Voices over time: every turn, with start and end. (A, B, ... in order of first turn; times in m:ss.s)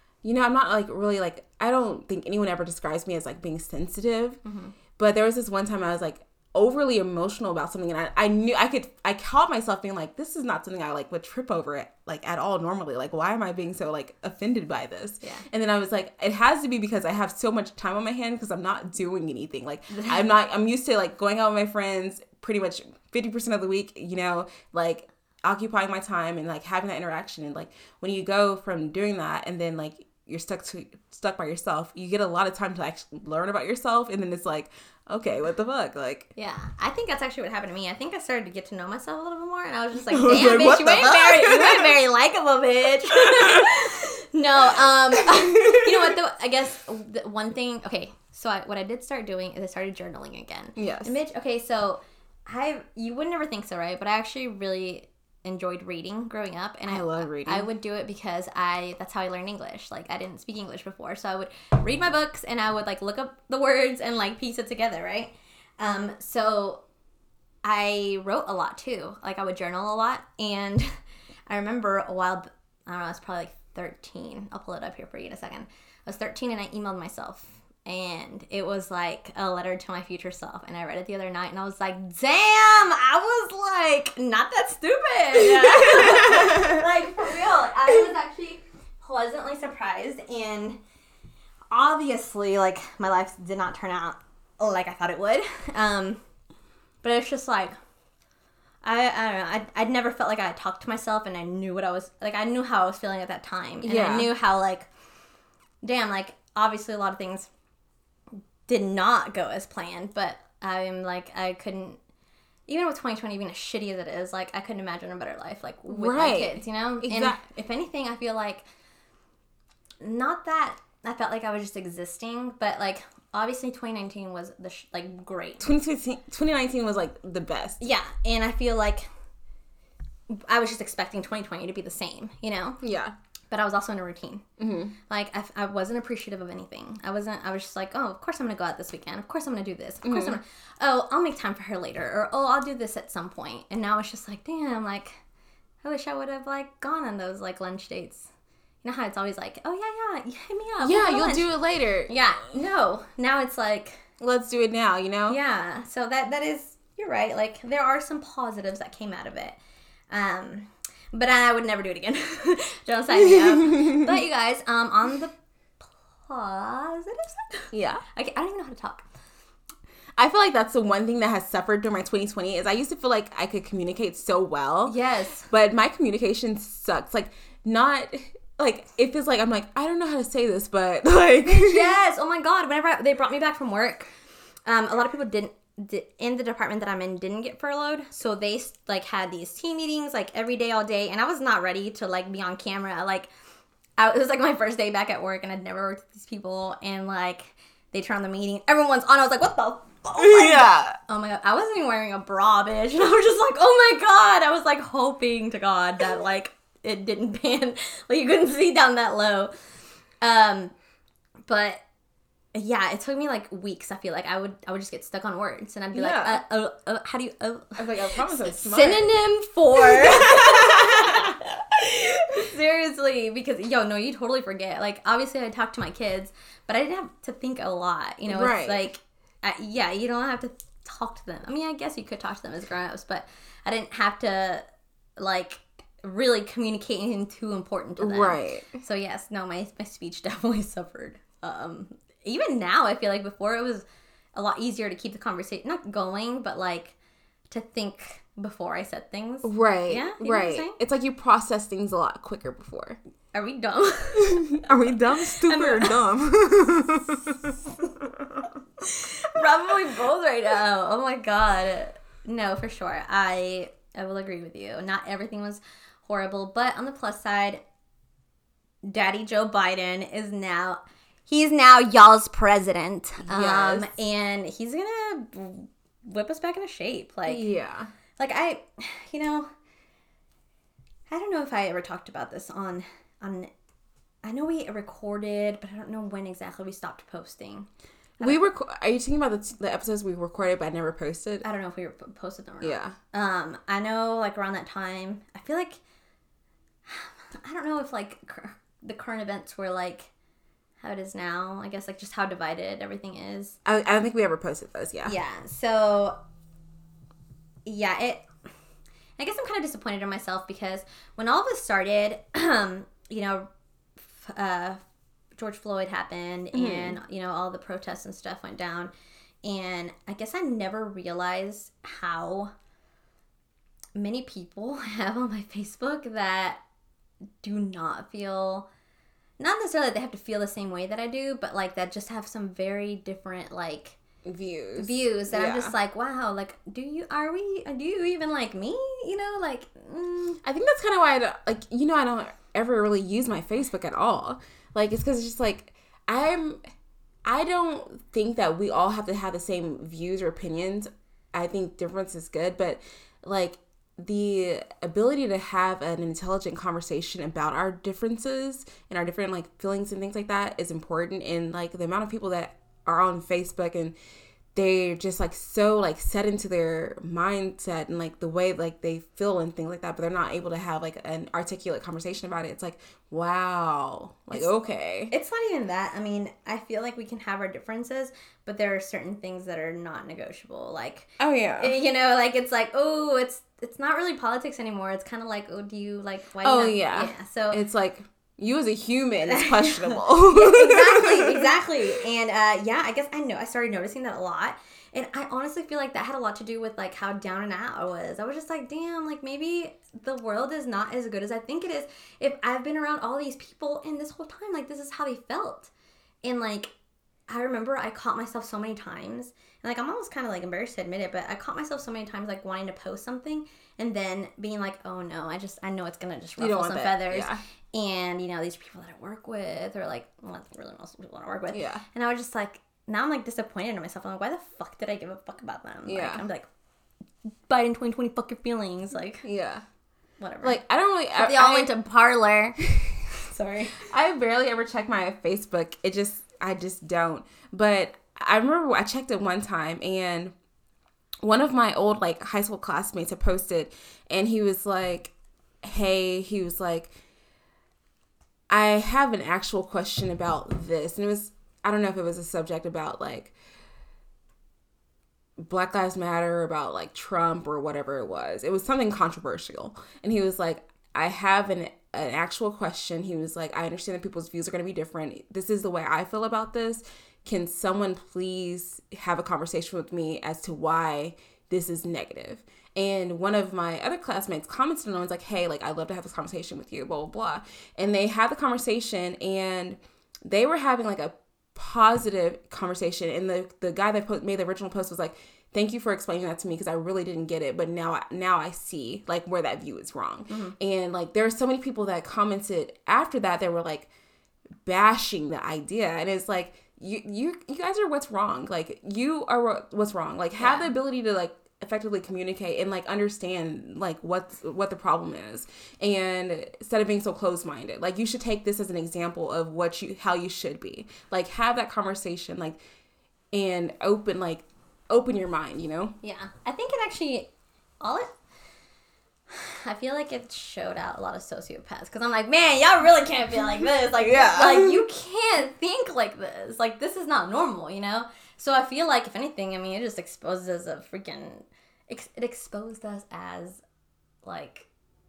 0:00.2-0:04.4 A
0:04.4-0:04.7 B
0:05.0-0:36.3 A
0:19.9-0:20.3 B
0:36.4-1:06.8 B
0:40.1-0:41.9 A
0:43.3-0:43.7 A
0:45.2-0:46.2 A
0:50.8-0:51.2 A
0:56.9-0:57.7 A
1:07.6-1:10.9 B
1:11.5-1:30.8 B
1:25.4-1:26.8 A
1:31.7-1:36.2 B
1:37.0-1:37.7 B
1:38.8-1:44.9 B
1:43.8-1:44.3 A
1:45.8-1:47.5 B
1:48.7-1:52.0 B
1:52.7-1:58.7 B
1:55.9-1:57.4 A
2:00.0-2:05.7 B
2:05.6-2:07.8 A
2:07.8-2:09.1 B
2:10.3-2:12.8 B
2:12.8-2:13.1 A
2:13.5-2:14.4 B
2:14.6-2:15.0 A
2:15.1-2:25.2 B
2:20.0-2:20.4 A
2:25.8-2:28.3 B
2:28.8-2:31.5 B
2:30.8-2:32.1 A
2:32.1-2:34.0 B
2:34.2-2:35.4 A
2:35.3-2:39.6 B
2:40.1-2:49.0 B
2:43.1-2:44.1 A
2:47.7-2:48.0 A
2:50.2-2:55.0 A
2:54.9-2:55.5 B
2:55.5-3:01.9 A
3:01.5-3:04.1 B
3:04.7-3:13.3 B
3:14.0-3:29.5 B
3:20.2-3:21.0 A
3:30.2-3:30.7 B
3:31.5-3:31.8 B
3:32.6-3:54.6 B
3:35.9-3:36.4 A
3:37.8-3:39.1 A
3:39.8-3:41.3 A
3:48.3-3:48.9 A
3:55.2-4:07.0 B
3:58.0-3:58.7 A
4:07.5-4:10.8 B
4:09.4-4:13.0 A
4:13.3-4:14.7 B
4:14.2-4:18.5 A
4:15.3-4:15.9 B
4:18.8-4:27.6 B
4:28.8-4:37.4 B
4:33.2-4:33.9 A
4:37.3-4:37.9 A
4:38.2-4:39.5 B
4:41.1-4:43.5 B
4:44.2-4:47.7 B
4:48.2-4:48.5 B
4:48.2-4:51.4 A
4:51.4-4:55.8 B
4:52.6-4:53.0 A
4:56.9-5:00.1 B
5:00.8-5:03.6 B
5:03.6-5:05.1 A
5:05.1-5:06.2 B
5:07.6-5:08.3 B
5:09.2-5:13.5 B
5:14.0-5:14.8 B
5:15.4-5:18.9 B
5:16.5-5:17.0 A
5:19.4-5:22.5 B
5:24.0-5:26.6 B
5:27.4-5:28.7 B
5:29.4-5:34.0 B
5:34.2-5:35.7 A
5:34.8-5:40.4 B
5:40.4-5:46.6 A
5:47.2-6:04.0 A
6:04.6-6:15.1 A
6:15.1-6:27.6 B
6:21.2-6:21.7 A
6:26.4-6:31.6 A
6:29.2-6:45.7 B
6:46.2-6:46.7 B
6:47.3-7:06.5 B
6:56.4-6:57.4 A
7:01.5-7:01.8 A
7:05.9-7:06.2 A
7:07.5-7:09.3 B
7:09.2-7:09.6 A
7:10.2-7:10.6 B
7:10.4-7:11.7 A
7:11.1-7:12.6 B
7:13.2-7:13.8 B
7:13.8-7:20.3 A
7:21.2-7:26.9 A
7:28.5-7:33.3 A
7:35.4-8:13.9 A
8:10.3-8:10.6 B
8:14.6-8:32.6 A
8:20.4-8:20.7 B
8:33.3-8:36.0 A
8:36.0-8:37.3 B
8:37.8-8:38.1 B
8:39.3-8:53.6 B
8:44.0-8:44.8 A
8:54.2-8:54.7 B